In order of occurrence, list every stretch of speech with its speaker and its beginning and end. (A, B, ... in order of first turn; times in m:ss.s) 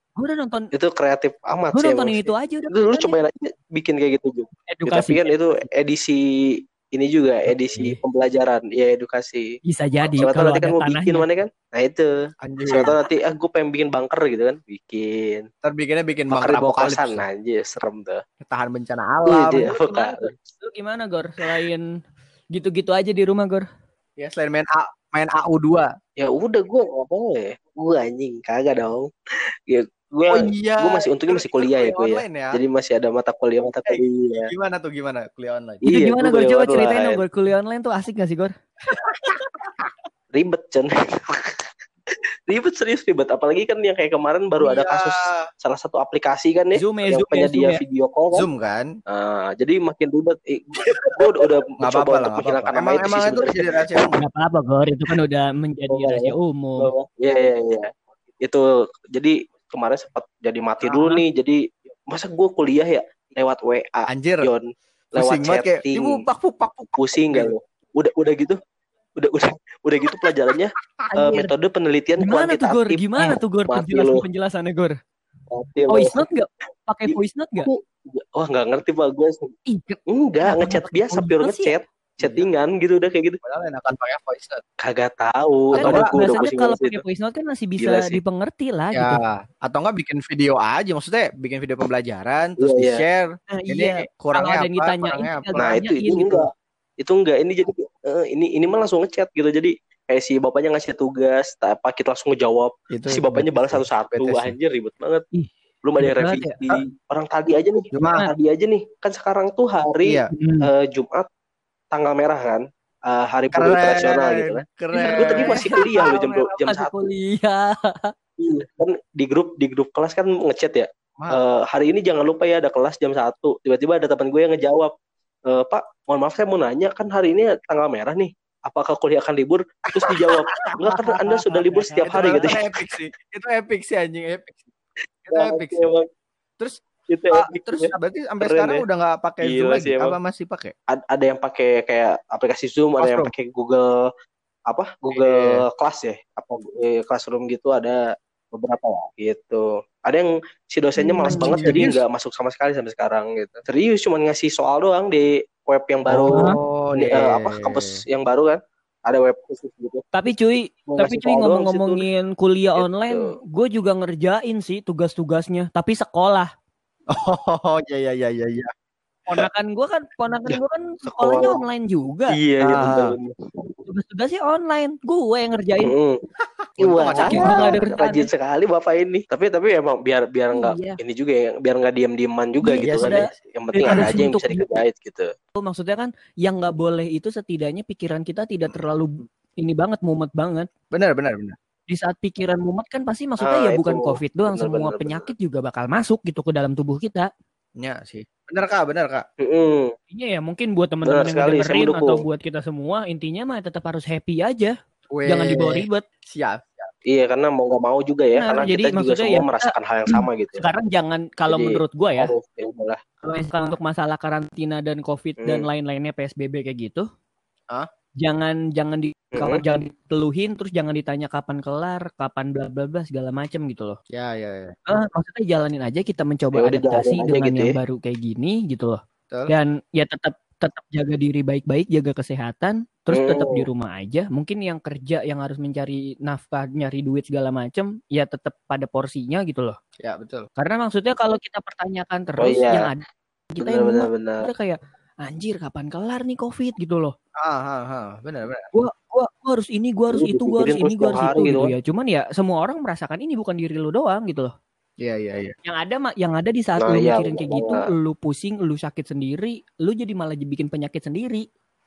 0:00.2-0:00.7 A
0:00.7-0:06.2 B
0:01.7-0:03.2 A
0:04.7-0:05.3 A
0:06.9-0:09.5 B
0:07.5-0:08.0 A
0:09.6-0:11.2 A
0:10.2-0:12.1 B
0:12.4-0:12.9 C
0:12.7-0:15.4 B
0:15.6-0:17.2 C
0:16.3-0:18.2 B
0:18.4-0:20.3 C
0:19.3-0:20.3 B
0:19.6-0:21.8 A
0:22.5-0:23.6 A
0:24.2-0:25.9 C
0:26.2-0:29.1 B
0:29.7-0:34.5 B
0:30.3-0:32.6 C
0:33.8-0:35.8 C
0:35.8-0:37.2 B
0:35.9-0:38.5 A
0:39.0-0:39.6 C
0:40.3-0:41.6 B
0:42.1-0:48.4 B
0:44.6-0:45.4 C
0:46.8-0:47.8 A
0:48.3-0:48.9 C
0:49.1-0:53.8 B
0:51.0-0:54.2 C
0:54.2-0:56.9 A
0:55.9-0:57.9 B
0:58.4-1:06.2 B
1:00.8-1:01.2 C
1:04.1-1:04.5 C
1:05.1-1:07.5 C
1:07.0-1:08.6 B
1:09.2-1:14.2 B
1:11.1-1:11.5 A
1:12.2-1:14.9 A
1:15.5-1:16.2 B
1:15.9-1:17.7 A
1:17.6-1:19.5 B
1:19.7-1:21.7 A
1:20.1-1:23.4 B
1:22.2-1:22.5 C
1:23.4-1:24.6 C
1:24.8-1:27.0 B
1:25.7-1:26.1 C
1:25.8-1:29.2 A
1:27.8-1:28.2 B
1:28.9-1:35.5 C
1:32.6-1:33.0 B
1:33.5-1:36.4 A
1:35.6-1:36.4 B
1:37.0-1:45.2 B
1:42.9-1:44.5 C
1:45.3-1:46.6 A
1:45.8-1:51.3 B
1:47.9-1:48.2 C
1:50.0-1:50.3 C
1:50.3-1:50.7 A
1:51.9-1:57.0 B
1:53.5-1:56.5 C
1:54.9-1:56.0 A
1:56.7-1:58.1 A
1:58.4-2:04.9 B
2:05.5-2:12.6 B
2:10.0-2:10.7 C
2:10.8-2:12.5 A
2:12.0-2:14.7 C
2:15.2-2:15.9 C
2:15.3-2:16.0 B
2:17.1-2:18.8 B
2:17.3-2:20.7 C
2:19.4-2:20.1 B
2:20.9-2:24.0 B
2:23.0-2:23.3 C
2:24.7-2:28.0 B
2:25.1-2:25.6 C
2:28.5-2:40.0 B
2:31.0-2:31.8 A
2:31.3-2:32.0 C
2:36.1-2:37.9 C
2:40.1-2:46.5 A
2:40.9-2:42.0 B
2:42.8-2:43.3 B
2:47.1-2:48.7 C
2:49.3-2:52.4 A
2:50.5-2:51.6 B
2:52.3-2:53.7 B
2:52.6-2:53.2 C
2:53.9-2:55.9 A
2:55.8-2:56.2 B
2:56.8-2:57.7 C
2:56.8-3:05.3 B
2:57.2-2:58.3 A
3:00.5-3:01.0 A
3:02.6-3:04.8 A
3:02.8-3:04.2 C
3:05.6-3:10.7 A
3:10.9-3:11.5 C
3:11.9-3:17.3 A
3:13.4-3:15.3 B
3:17.8-3:19.2 C
3:19.4-3:19.9 B
3:20.1-3:24.7 A
3:21.0-3:22.2 B
3:25.1-3:26.9 C
3:25.3-3:26.0 A
3:27.1-3:30.7 B
3:28.3-3:32.3 A
3:31.5-3:33.0 B
3:33.2-3:37.0 A
3:38.2-3:44.0 A
3:39.3-3:39.6 B
3:44.1-3:44.7 C
3:44.9-3:59.8 A
3:46.6-3:47.8 B
3:53.1-3:53.7 B
4:00.0-4:00.5 C
4:00.6-4:07.1 A
4:02.4-4:02.9 B
4:03.6-4:04.5 B
4:07.4-4:08.6 C
4:08.7-4:14.5 A
4:10.1-4:11.7 B
4:15.0-4:15.5 C
4:15.6-4:21.4 A
4:16.8-4:17.8 B